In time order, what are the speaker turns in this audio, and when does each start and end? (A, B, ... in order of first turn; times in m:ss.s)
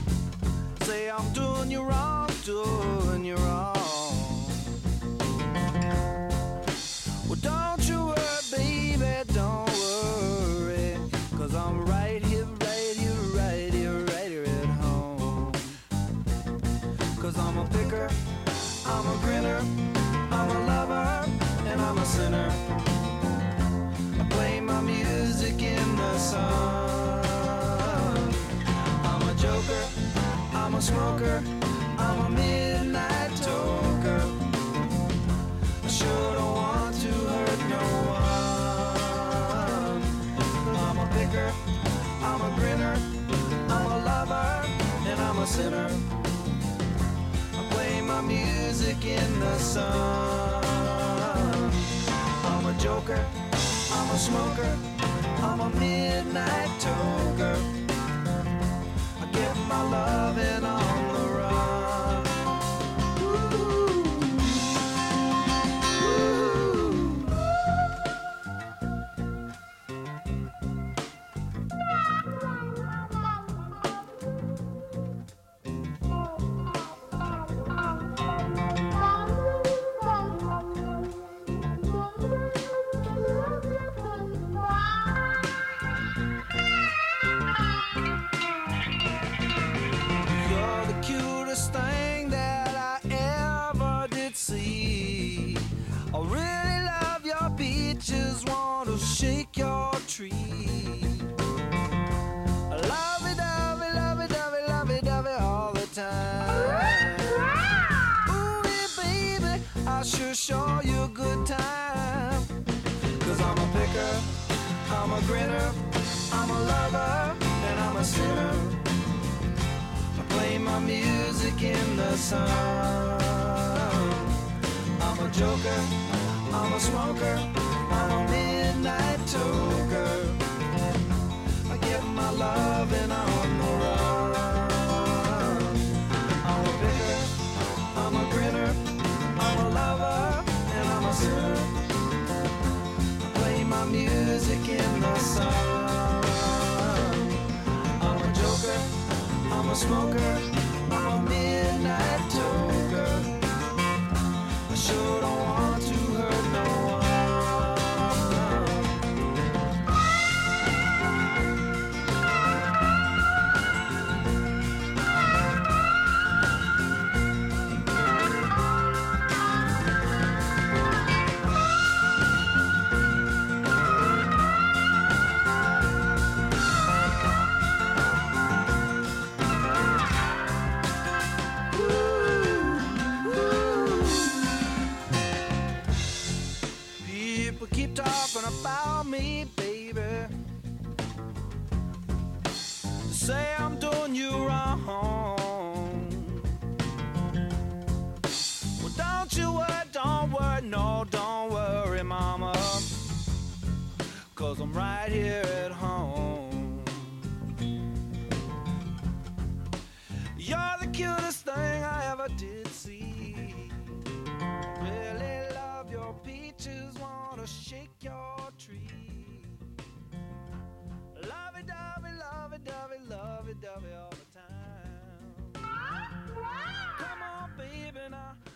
0:00.8-0:04.7 A
0:07.2-0:15.8 A
0:17.2-0:22.6 A
0:24.2-0:28.4 A
0:29.0-0:34.5 A
0:35.8-0:46.1 A
0:47.5-0:54.8 A
0:55.4-0:57.7 A
0:59.2-1:02.3 A
1:03.2-1:04.4 A
1:06.0-1:07.2 A
1:30.3-1:41.3 A
1:42.7-1:47.5 A
1:48.1-1:52.5 A
1:53.2-1:54.3 A
1:54.8-1:58.8 A
2:00.1-2:04.3 A
2:05.0-2:10.4 A
2:11.7-2:21.9 A
2:23.2-2:28.9 A
2:29.4-2:33.4 A
2:34.7-2:39.0 A
3:01.7-3:04.4 A
3:07.0-3:10.3 A
3:13.0-3:16.3 A
3:18.8-3:23.0 A
3:24.3-3:27.1 A
3:30.3-3:33.8 A
3:34.7-3:39.6 A
3:41.1-3:45.5 A
3:47.0-3:48.4 A